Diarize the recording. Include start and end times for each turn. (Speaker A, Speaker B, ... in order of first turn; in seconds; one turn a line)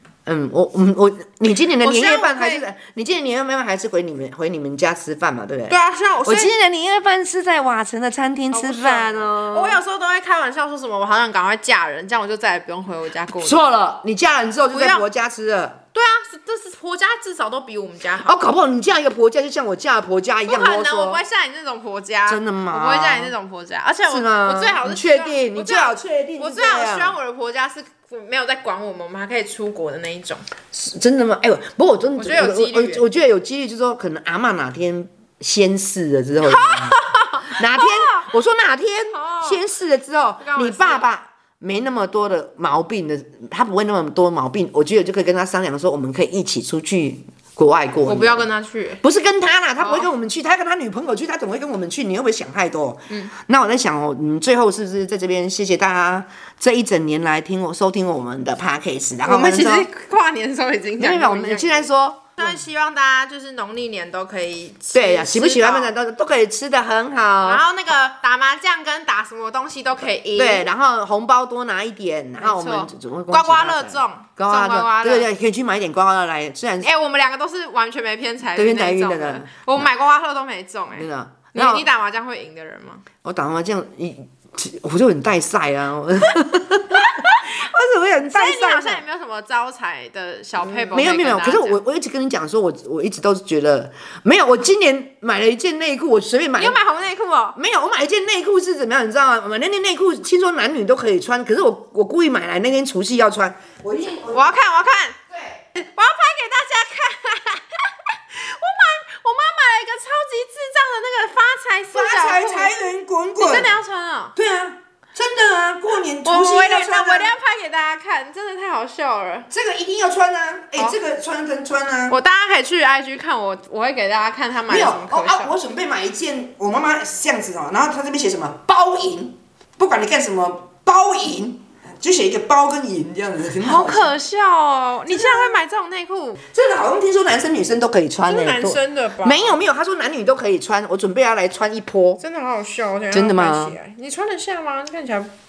Speaker A: 0.2-9.8
Speaker B: 1.8-2.6
Speaker B: 5.7-6.5
Speaker B: 8.5-13.6
Speaker A: 13.3-15.8
Speaker B: 14.7-15.0
Speaker B: 15.9-18.4
Speaker A: 18.2-21.2
Speaker B: 20.5-30.4
Speaker A: 22.3-23.3
Speaker A: 24.1-27.1
Speaker A: 30.7-48.5
Speaker B: 32.1-33.0
Speaker B: 36.4-38.3
Speaker B: 39.1-39.6
Speaker B: 40.4-41.0
Speaker B: 48.0-49.0
Speaker A: 49.0-59.9
Speaker B: 49.8-50.1
Speaker B: 59.2-65.9
Speaker A: 61.0-62.6
Speaker A: 64.9-67.6
Speaker B: 67.4-70.7
Speaker A: 70.3-76.9
Speaker B: 72.4-75.3
Speaker B: 76.8-83.0
Speaker A: 78.5-79.8
Speaker A: 81.0-81.8
Speaker A: 83.2-89.0
Speaker B: 86.9-87.5
Speaker B: 88.3-91.8
Speaker A: 90.6-96.8
Speaker B: 96.6-97.6
Speaker A: 97.5-104.5
Speaker B: 104.3-105.2
Speaker A: 105.3-105.6
Speaker B: 105.7-112.9
Speaker A: 111.9-113.7
Speaker B: 113.4-114.3
Speaker A: 114.3-117.3
Speaker B: 116.2-119.5
Speaker A: 119.5-122.2
Speaker B: 122.1-125.5
Speaker A: 124.7-134.1
Speaker B: 133.6-136.3
Speaker A: 135.1-135.6
Speaker A: 136.4-142.2
Speaker B: 138.2-139.6
Speaker B: 142.2-145.3
Speaker A: 143.1-143.8